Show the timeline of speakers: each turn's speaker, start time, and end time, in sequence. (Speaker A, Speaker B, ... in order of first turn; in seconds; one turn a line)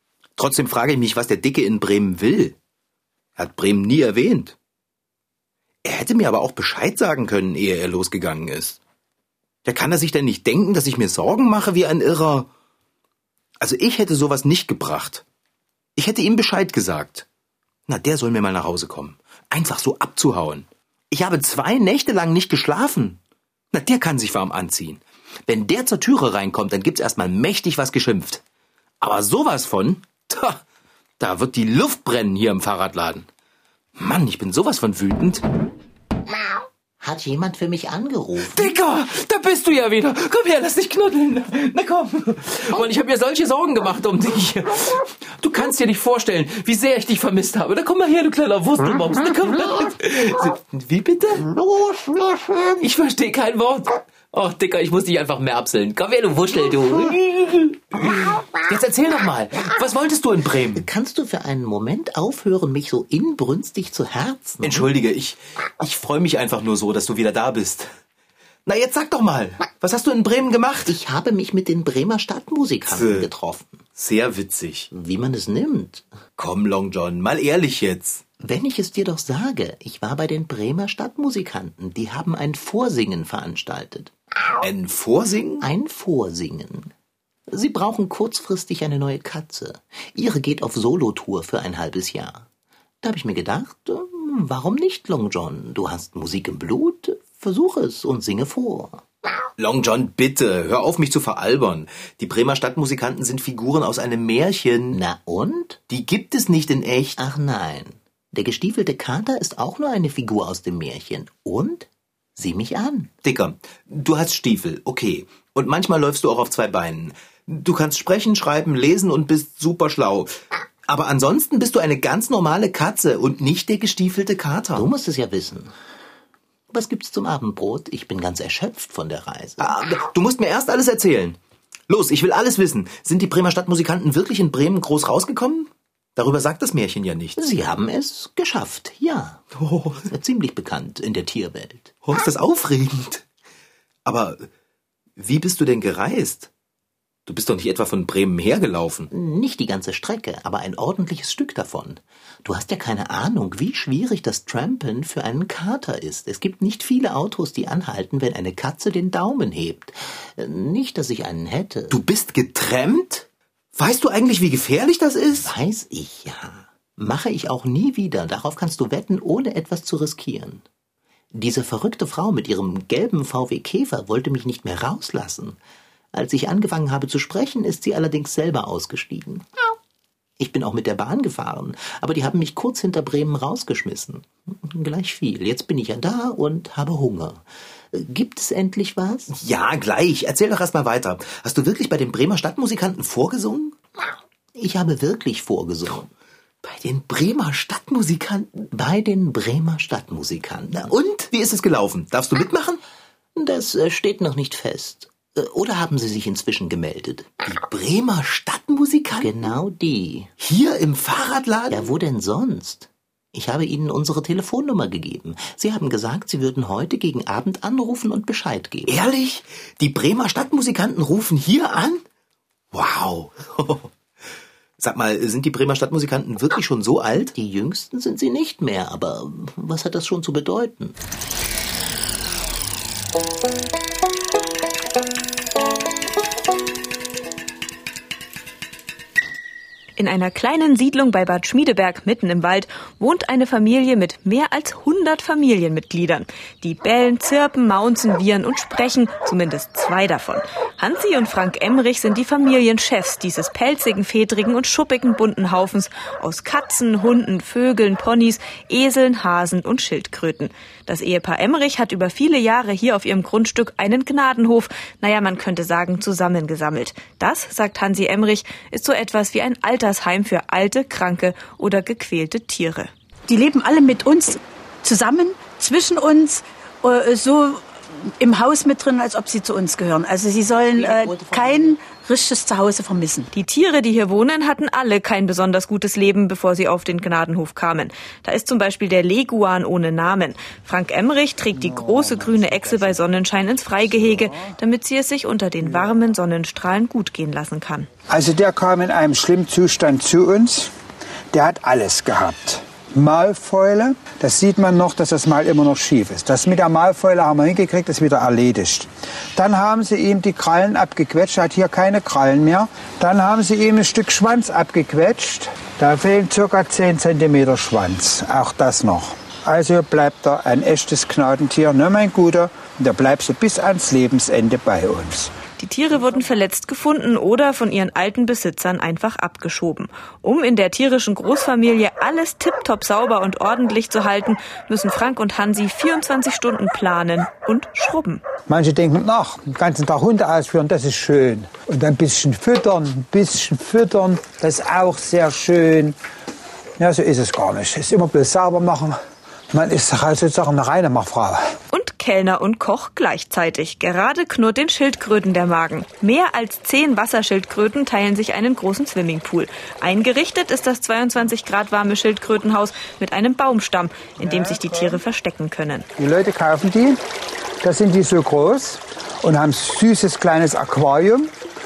Speaker A: 0.4-2.6
Speaker A: 3.4-4.5
Speaker A: 5.8-8.8
Speaker A: 9.6-12.5
Speaker A: 13.6-15.2
Speaker A: 15.9-17.2
Speaker A: 17.9-23.2
Speaker A: 23.7-28.4
Speaker A: 29.0-30.6
Speaker A: 31.2-33.3
Speaker A: 34.0-35.4
Speaker B: 37.0-38.8
Speaker A: 38.4-51.5
Speaker B: 51.7-52.3
Speaker A: 52.8-60.9
Speaker B: 60.8-64.8
Speaker A: 64.6-67.9
Speaker A: 68.7-71.0
Speaker B: 70.9-73.8
Speaker A: 72.8-73.3
Speaker A: 74.0-74.9
Speaker B: 74.9-76.1
Speaker A: 76.4-78.2
Speaker B: 78.4-84.1
Speaker A: 84.6-85.7
Speaker B: 85.6-86.9
Speaker B: 87.5-92.5
Speaker B: 93.0-99.0
Speaker A: 99.6-105.0
Speaker B: 104.9-105.8
Speaker A: 105.9-107.2
Speaker B: 107.2-113.1
Speaker A: 113.2-120.3
Speaker A: 120.9-124.9
Speaker B: 124.8-125.7
Speaker B: 126.7-129.7
Speaker A: 129.6-131.4
Speaker A: 131.9-137.4
Speaker B: 137.4-139.4
Speaker A: 139.5-140.1
Speaker B: 140.1-141.9
Speaker A: 142.0-143.2
Speaker A: 144.0-144.5
Speaker A: 145.2-146.5
Speaker A: 147.2-149.1
Speaker B: 149.1-162.0
Speaker A: 161.9-165.5
Speaker B: 165.3-170.6
Speaker B: 171.3-175.6
Speaker B: 176.1-179.4
Speaker B: 180.4-189.3
Speaker A: 189.3-193.8
Speaker B: 194.5-196.1
Speaker A: 196.6-198.5
Speaker B: 198.6-200.9
Speaker A: 200.8-202.8
Speaker B: 203.3-207.4
Speaker A: 207.5-209.1
Speaker B: 208.6-210.3
Speaker A: 210.4-211.9
Speaker B: 211.7-218.9
Speaker A: 218.9-222.0
Speaker A: 222.7-223.9
Speaker A: 224.8-227.3
Speaker B: 227.3-231.0
Speaker C: 240.0-272.9
Speaker D: 273.3-283.3
Speaker B: 280.8-281.8
Speaker C: 283.3-297.9
Speaker E: 291.6-293.0
Speaker E: 293.8-294.5
Speaker E: 295.6-295.9
Speaker E: 298.1-300.7
Speaker E: 301.3-325.3
Speaker C: 325.6-338.2
Speaker E: 338.5-345.9
Speaker E: 346.8-349.0
Speaker E: 349.5-351.4
Speaker C: 351.7-365.9
Speaker E: 364.2-365.0
Speaker E: 366.0-367.0
Speaker E: 367.6-371.3